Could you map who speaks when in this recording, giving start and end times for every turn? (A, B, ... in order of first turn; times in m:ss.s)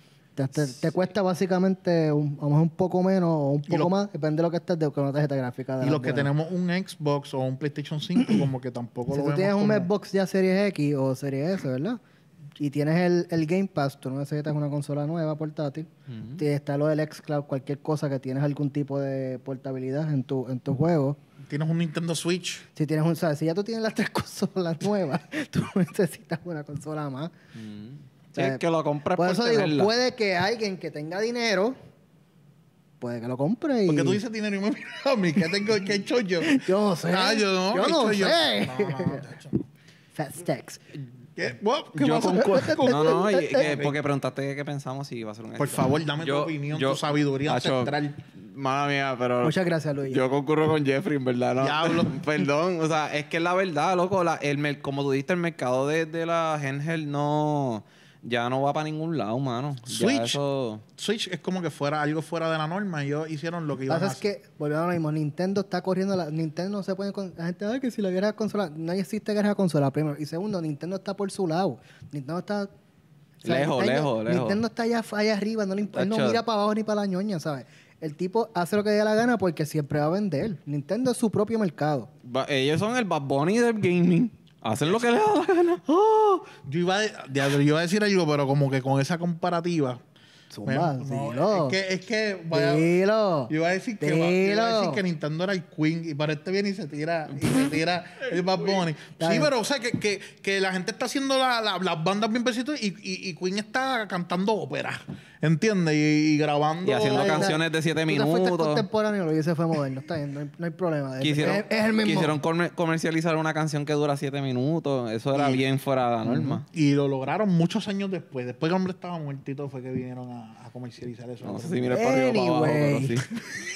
0:00.4-0:06.3 A
0:05.8-0:09.9 B
0:09.1-0:12.0 A
0:12.6-0:21.2 A
0:16.1-0:16.4 C
0:21.5-0:22.6 B
0:22.7-0:27.3 A
0:27.5-0:29.9 C
0:28.4-0:28.6 A
0:29.2-0:31.8 A
0:33.0-0:34.2 A
0:33.9-0:39.6 B
0:36.4-0:39.2 A
0:40.1-0:40.8 A
0:41.4-0:43.9 B
0:41.9-0:49.5 C
0:42.3-0:43.7 A
0:45.6-0:48.2 B
0:49.4-0:50.2 A
0:50.1-1:00.8 C
0:51.6-0:52.2 B
0:59.9-1:00.4 B
1:01.0-1:04.3 B
1:03.9-1:12.7 A
1:13.4-1:14.6 C
1:13.4-1:22.1 A
1:15.9-1:16.4 C
1:22.2-1:25.9 C
1:26.6-1:30.0 B
1:30.5-1:31.8 A
1:30.6-1:32.9 B
1:32.5-1:35.0 A
1:33.5-1:47.5 B
1:39.2-1:39.5 A
1:46.8-1:48.8 C
1:47.0-1:52.4 A
1:51.2-1:56.6 C
1:55.3-1:55.6 B
1:56.2-1:56.6 A
1:56.7-2:02.1 B
2:01.4-2:03.3 C
2:01.9-2:03.2 A